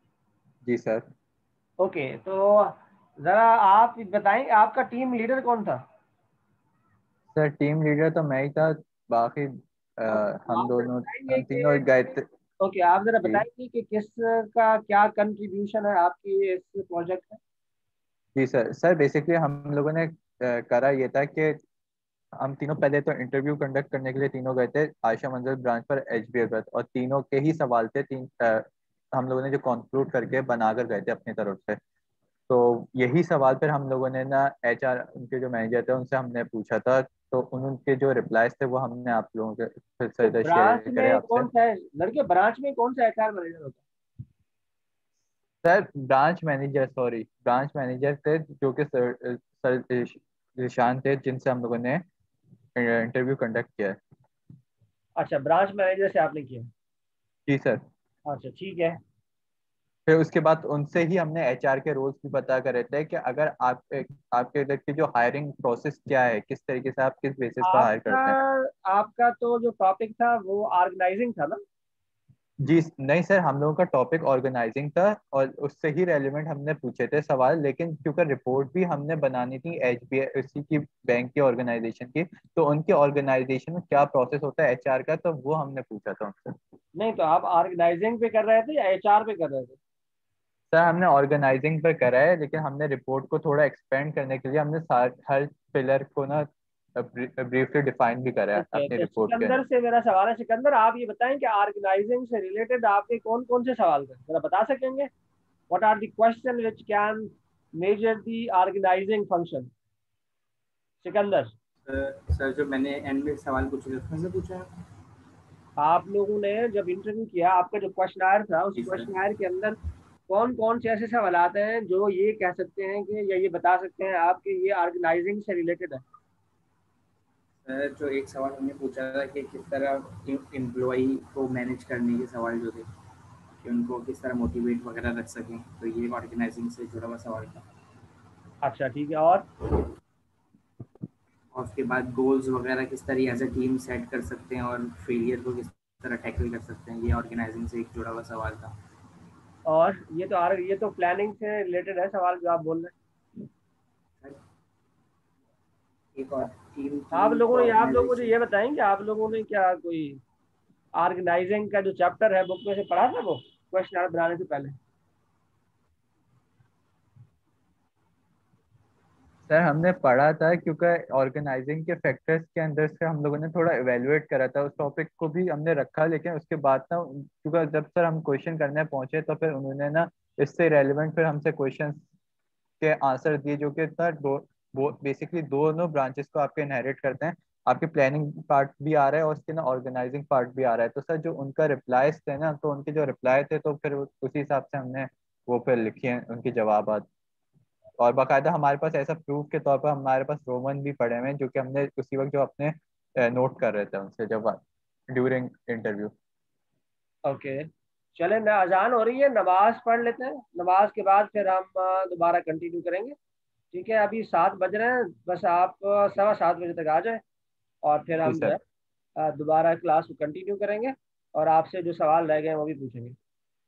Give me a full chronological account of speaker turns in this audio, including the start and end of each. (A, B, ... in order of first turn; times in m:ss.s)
0:00.6-0:01.0 A
0:01.8-0:05.8 B
0:07.3-0:12.2 A
0:10.1-0:11.8 B
0:12.6-0:17.4 B
0:18.3-0:21.6 A
0:22.4-0:31.8 A
0:32.5-0:41.5 A
0:40.2-0:43.8 B
0:45.6-0:52.0 A
0:52.8-0:54.0 A
0:55.2-0:56.7 B
0:57.5-0:57.8 A
0:58.3-0:59.0 B
1:00.1-1:08.4 A
1:07.6-1:11.6 B
1:12.6-1:26.5 A
1:27.0-1:29.8 B
1:30.7-1:39.6 A
1:38.6-1:45.1 B
1:45.7-1:49.7 B
1:51.0-1:51.5 B
1:51.8-1:54.7 C
1:55.8-1:59.8 B
1:58.8-1:59.1 C
2:00.3-2:06.0 B
2:07.6-2:12.8 C
2:13.6-2:17.6 C
2:18.6-2:19.4 B
2:21.5-2:28.7 C
2:29.6-2:32.9 B
2:36.2-2:38.3 C
2:37.1-2:40.2 B
2:41.0-2:44.7 B
2:49.5-3:02.0 A
3:02.8-3:17.1 A
3:18.0-3:24.6 A
3:25.1-3:26.1 A
3:27.2-3:33.1 B
3:33.7-3:37.2 B
3:37.8-3:38.6 B
3:38.2-3:38.6 A
3:39.2-3:43.2 B